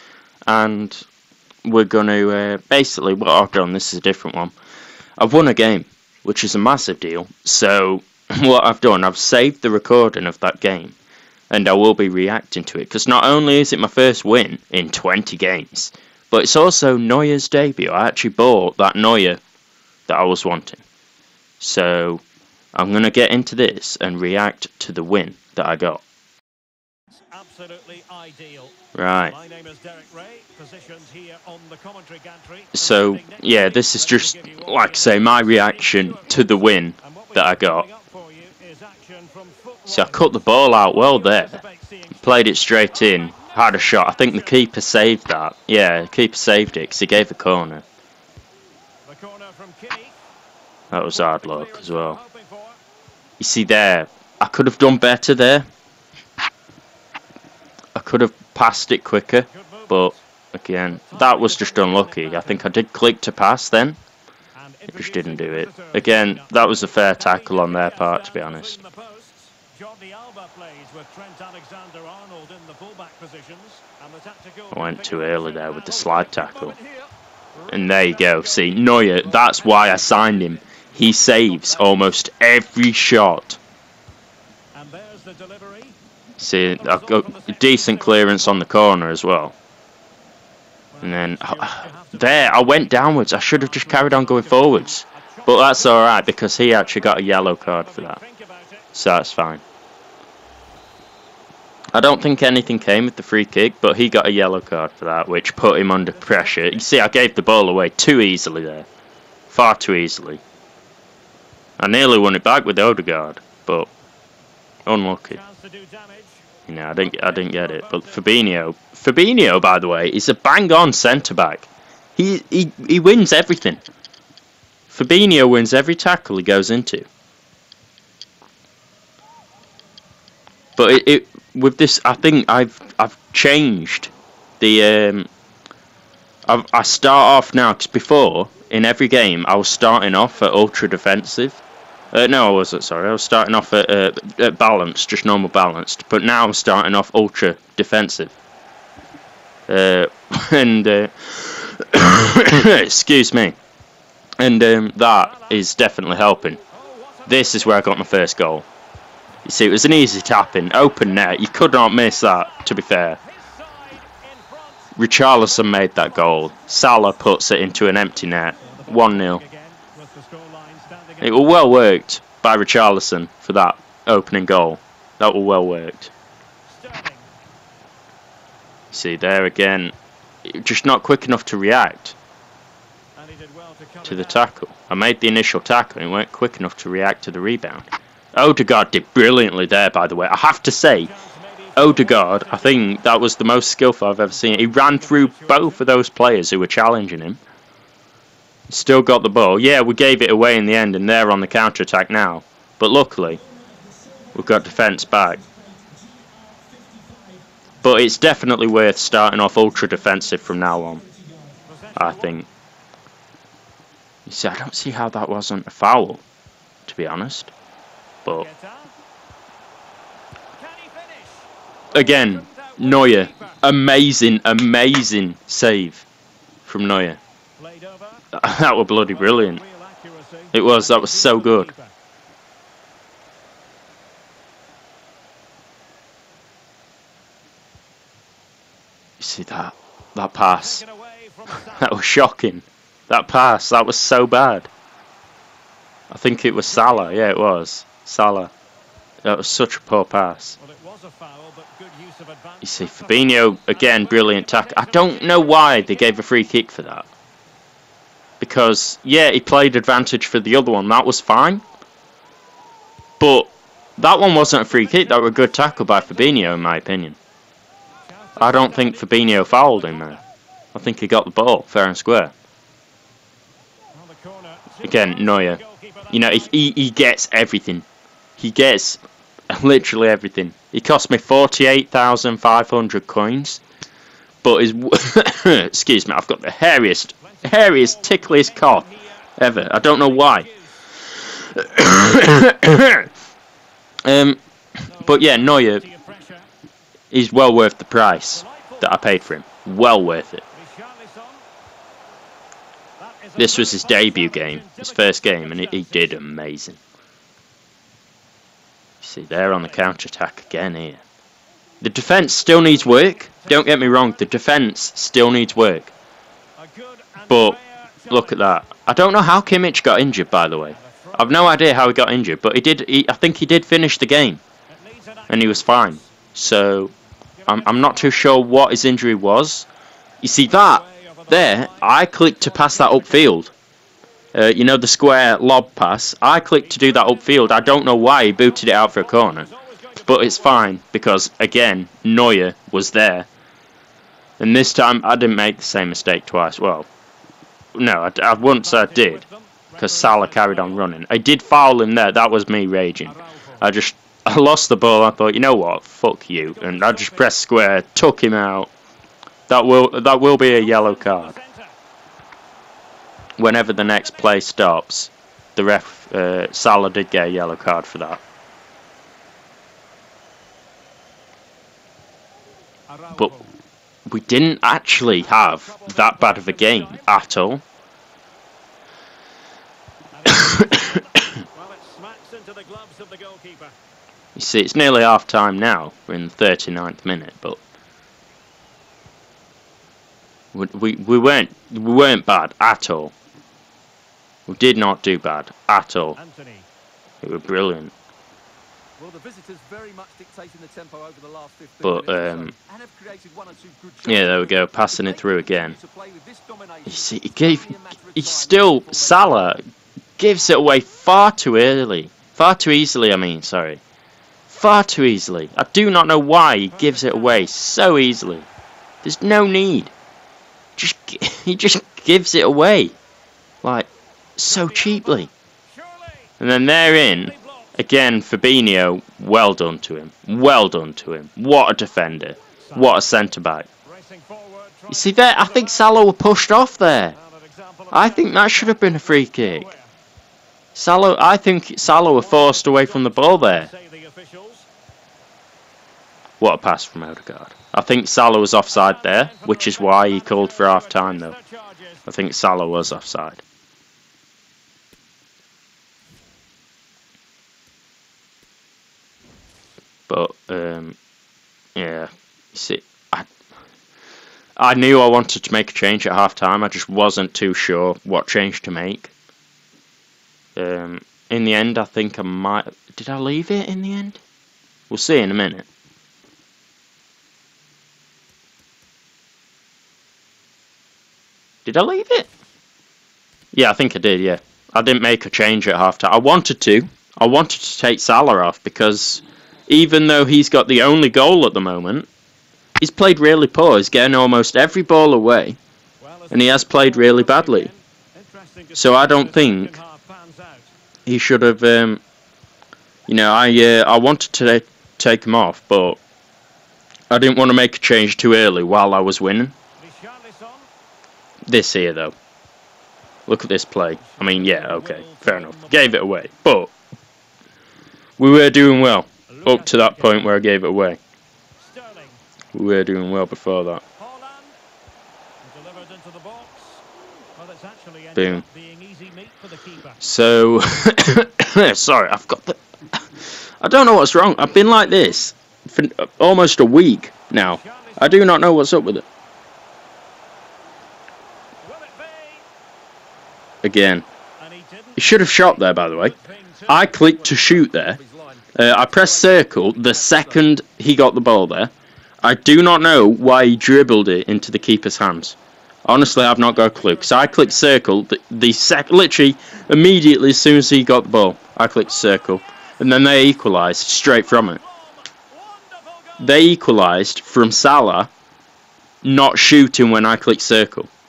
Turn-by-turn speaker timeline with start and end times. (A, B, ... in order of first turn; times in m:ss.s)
0:00.5-0:01.0 A
0:01.6-0:04.5 A
0:05.2-0:11.0 A
0:11.5-0:19.4 A
0:20.1-0:20.8 A
0:21.6-0:22.2 A
0:22.8-0:26.0 A
0:27.4-0:28.7 B
0:29.0-0:29.4 A
0:29.4-0:32.0 B
0:32.7-0:37.9 A
0:37.9-0:39.8 B
0:39.9-0:41.6 A
0:42.2-0:47.8 A
0:49.2-0:50.1 B
0:50.9-0:52.2 A
0:53.4-0:55.7 A
0:58.0-1:04.0 A
1:04.8-1:05.9 B
1:04.9-1:08.8 A
1:07.8-1:08.3 B
1:09.0-1:09.3 B
1:09.9-1:13.8 B
1:14.7-1:16.8 A
1:17.7-1:23.6 A
1:24.8-1:25.9 B
1:26.4-1:29.6 A
1:31.0-1:38.2 A
1:31.5-1:31.9 B
1:38.9-1:39.6 A
1:42.0-1:48.9 A
1:49.5-1:50.4 A
1:51.8-1:53.9 A
1:54.9-1:55.4 A
1:56.0-1:56.2 B
1:56.7-2:03.8 A
2:04.9-2:07.1 A
2:10.8-2:15.3 A
2:16.5-2:28.4 A
2:29.7-2:33.6 A
2:34.4-2:36.6 A
2:37.3-2:38.7 A
2:39.4-2:43.2 A
2:45.0-2:49.4 A
2:49.5-2:51.0 B
2:51.2-2:56.1 A
2:56.9-2:57.2 B
2:58.9-2:59.9 A
3:00.5-3:02.2 A
3:03.3-3:04.0 B
3:04.0-3:11.1 A
3:11.8-3:17.4 A
3:18.7-3:23.4 A
3:24.3-3:25.4 A
3:27.8-3:31.0 A
3:32.0-3:32.5 A
3:34.3-3:36.2 A
3:36.9-3:37.5 A
3:40.8-3:41.4 B
3:41.9-3:46.1 A
3:46.6-3:47.2 A
3:48.3-3:49.6 A
3:50.5-3:51.7 A
3:59.2-4:00.8 A
4:01.5-4:04.7 A
4:06.1-4:08.5 A
4:09.2-4:10.6 A
4:10.7-4:12.5 B
4:12.6-4:17.1 A
4:18.4-4:21.6 A
4:23.2-4:27.2 A
4:28.4-4:30.2 A
4:30.7-4:32.3 A
4:34.8-4:37.9 A
4:38.4-4:43.6 A
4:44.4-4:50.5 A
4:51.4-4:53.1 A
4:54.1-4:54.4 A
4:54.9-4:55.9 A
4:57.1-5:00.4 A
5:03.3-5:04.7 B
5:03.4-5:06.8 A
5:09.0-5:11.0 A
5:11.8-5:15.9 A
5:16.8-5:17.1 B
5:17.3-5:24.4 A
5:25.3-5:26.9 A
5:27.5-5:29.7 A
5:30.2-5:33.5 A
5:34.4-5:39.5 A
5:40.0-5:43.3 A
5:44.4-5:46.9 A
5:47.8-5:49.2 A
5:49.8-5:58.7 A
5:59.5-6:01.4 A
6:03.4-6:08.2 A
6:14.1-6:17.6 A
6:20.2-6:21.3 A
6:20.3-6:20.8 B
6:21.6-6:23.7 B
6:24.4-6:27.6 A
6:30.5-6:33.1 A
6:34.5-6:36.2 A
6:36.3-6:36.6 B
6:37.2-6:37.9 A
6:39.0-6:49.5 C
6:41.8-6:42.5 A
6:44.1-6:45.8 A
6:46.9-6:49.6 A
6:50.2-6:53.8 A
6:54.5-6:58.5 A
6:59.0-6:59.9 A
7:00.8-7:03.0 A
7:03.6-7:05.3 A
7:06.4-7:13.7 A
7:14.9-7:17.2 A
7:17.9-7:19.7 A
7:20.8-7:23.7 A
7:23.7-7:24.6 B
7:26.4-7:31.4 A
7:32.1-7:33.4 A
7:40.1-7:41.0 A
7:41.8-7:43.3 A
7:44.6-7:49.1 A
7:50.6-7:54.2 A
7:54.9-7:55.7 A
8:01.6-8:02.3 A
8:03.5-8:12.1 A
8:12.8-8:15.6 A
8:16.3-8:17.7 A
8:16.6-8:17.2 B
8:18.7-8:20.6 B
8:18.7-8:19.8 A
8:21.1-8:22.0 A
8:23.1-8:26.0 A
8:27.1-8:29.5 A
8:31.5-8:32.1 A
8:33.3-8:36.7 A
8:34.7-8:35.2 B
8:38.2-8:41.0 A
8:42.5-8:43.8 A
8:45.6-8:46.6 B
8:47.7-8:49.1 B
8:48.2-8:48.4 A
8:50.0-8:52.6 A
8:53.6-8:59.1 A
9:03.6-9:04.0 A
9:05.0-9:06.2 A
9:06.7-9:08.0 A
9:07.2-9:08.5 C
9:08.6-9:11.7 A
9:12.2-9:24.6 A
9:26.2-9:28.1 A
9:29.0-9:30.9 A